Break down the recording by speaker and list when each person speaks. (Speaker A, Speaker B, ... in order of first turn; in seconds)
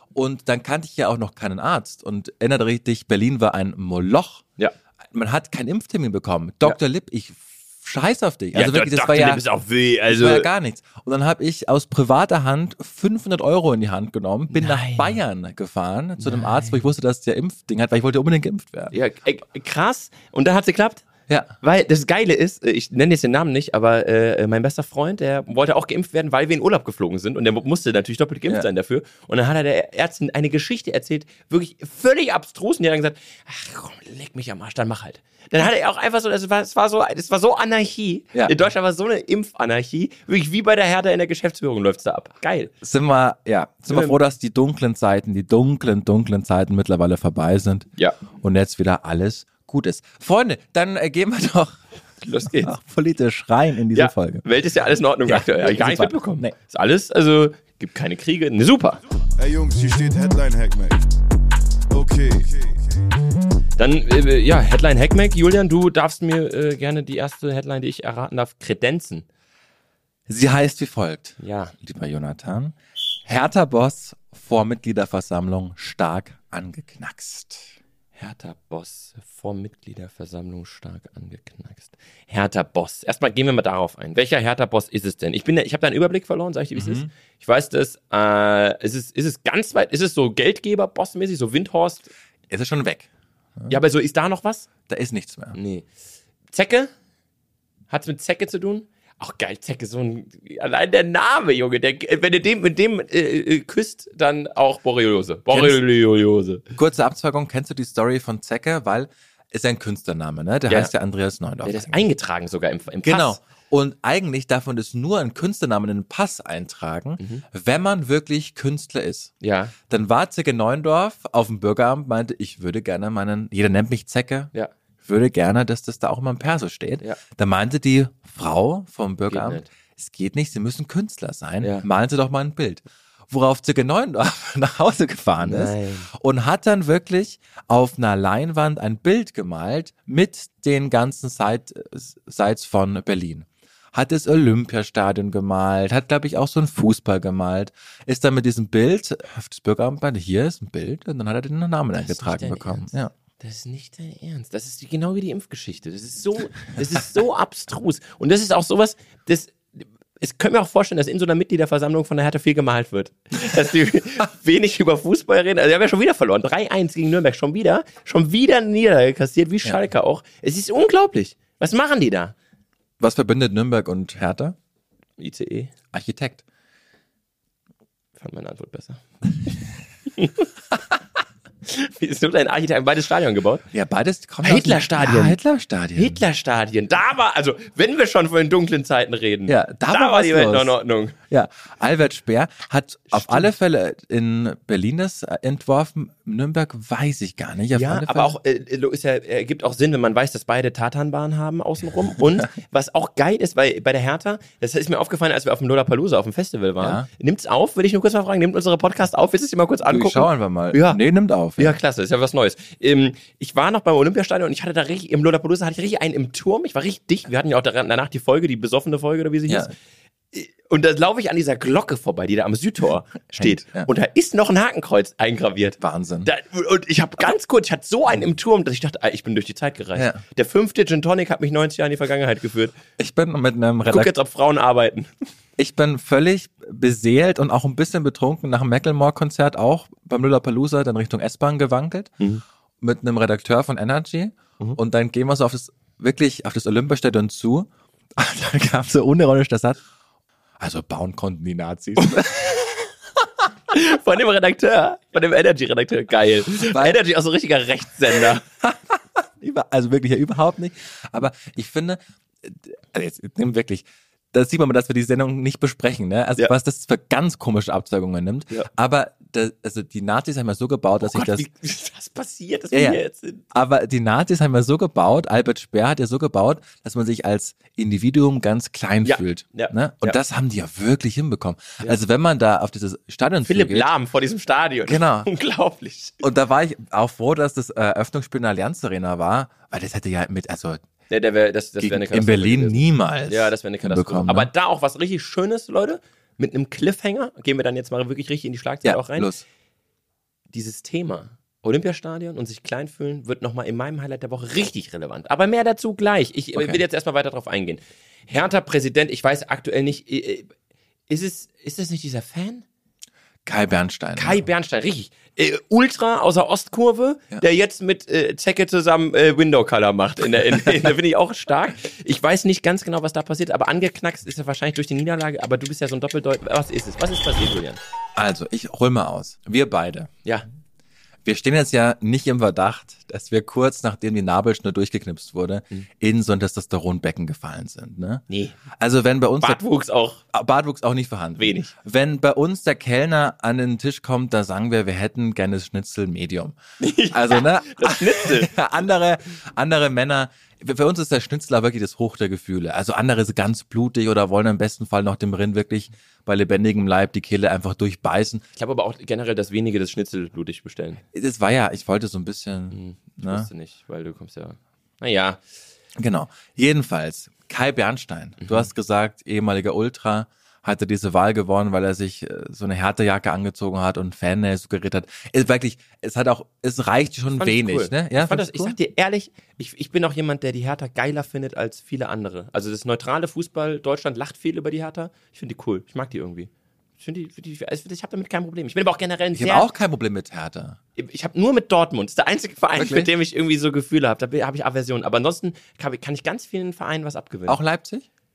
Speaker A: 0.1-4.4, 5.1-9.4, 10.1-18.9, 21.3-21.5, 42.8-51.8, 52.5-54.5, 55.3-56.5, 70.3-77.7, 86.8-87.1, 92.5-93.1, 94.9-95.6, 105.5-105.8, 106.7-112.1, 113.0-119.3, 119.9-124.5, 125.0-153.1, 173.0-174.6, 175.9-176.4, 183.7-186.2, 189.5-198.3, 206.8-207.1, 209.9-211.8, 223.3-223.9, 225.8-226.3, 229.9-230.2, 233.0-234.1, 235.6-242.1, 242.8-249.8, 250.6-252.6, 256.7-257.0, 258.6-271.5, 272.7-283.9, 284.9-285.3, 286.2-290.8, 291.8-294.5, 298.8-299.4, 306.6-306.8, 313.5-314.5, 328.2-330.1, 331.2-339.6, 340.3-346.6, 347.1-358.4, 361.1-363.5, 366.0-378.8, 389.4-390.8, 392.8-393.1, 397.5-398.1
Speaker B: 8.5-10.5, 14.5-15.2, 16.2-16.8, 18.9-21.1, 21.6-42.7, 43.9-44.2, 52.2-52.7, 54.0-59.0, 63.8-69.2, 71.4-71.7, 78.2-92.1, 93.7-94.7, 95.5-95.9, 96.5-96.9, 97.9-106.6, 111.7-113.4, 117.2-117.4, 119.4-119.8, 129.3-129.7, 131.6-131.9, 135.4-136.1, 152.0-172.3, 175.2-175.7, 178.2-179.6, 180.1-180.5, 181.7-183.7, 184.4-185.4, 185.9-191.2, 193.1-193.5, 197.7-211.0, 211.6-219.7, 220.3-232.8, 233.9-235.1, 252.2-252.7, 253.7-258.4, 271.0-273.4, 279.0-280.2, 283.4-286.2, 291.1-299.3, 300.5-310.5, 311.1-312.6, 314.2-327.8, 338.3-338.6, 339.4-340.2, 341.4-341.7, 346.8-348.5, 358.6-361.0, 362.7-365.4, 368.4-368.7, 377.4-389.7, 391.0-397.6
Speaker C: 59.4-61.1, 61.9-62.8